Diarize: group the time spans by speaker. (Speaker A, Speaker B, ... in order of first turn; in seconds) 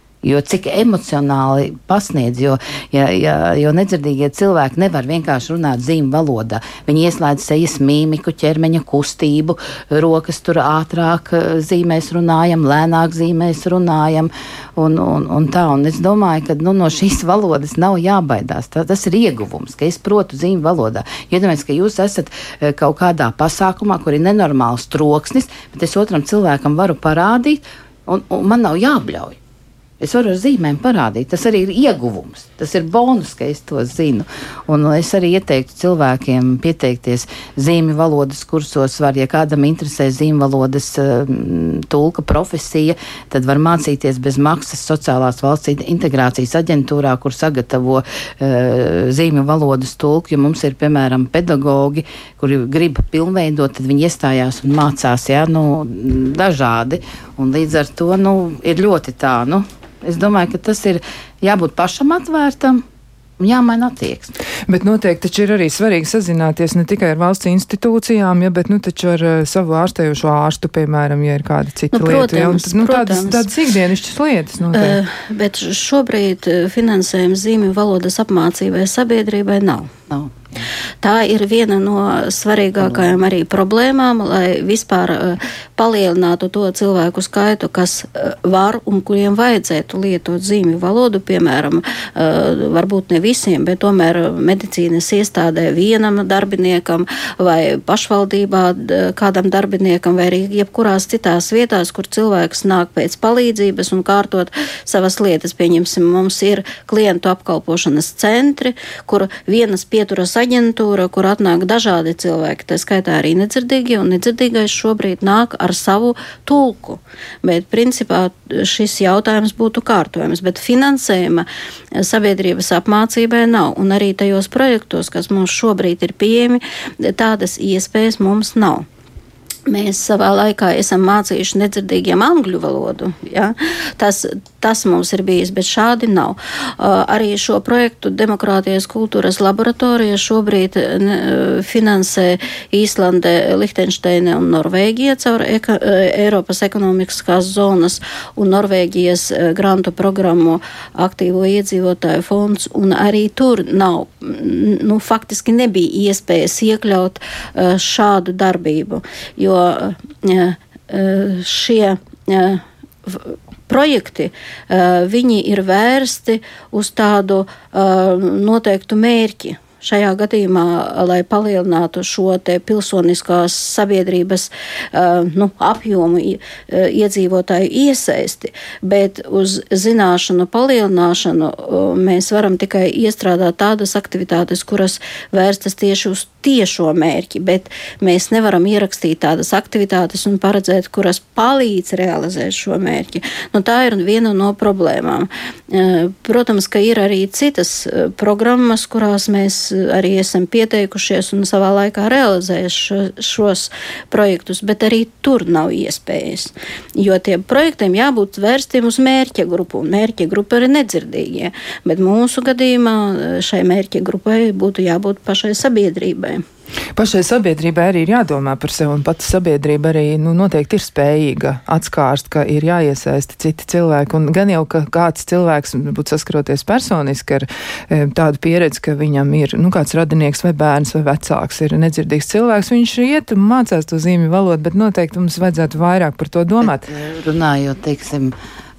Speaker A: 0.2-29.4, 30.0-62.8, 63.4-64.3, 80.1-80.6, 82.8-83.1, 236.6-238.3
Speaker B: 64.7-75.0, 216.9-236.9
Speaker C: 71.9-73.5, 74.7-79.9, 81.0-128.8, 129.7-216.4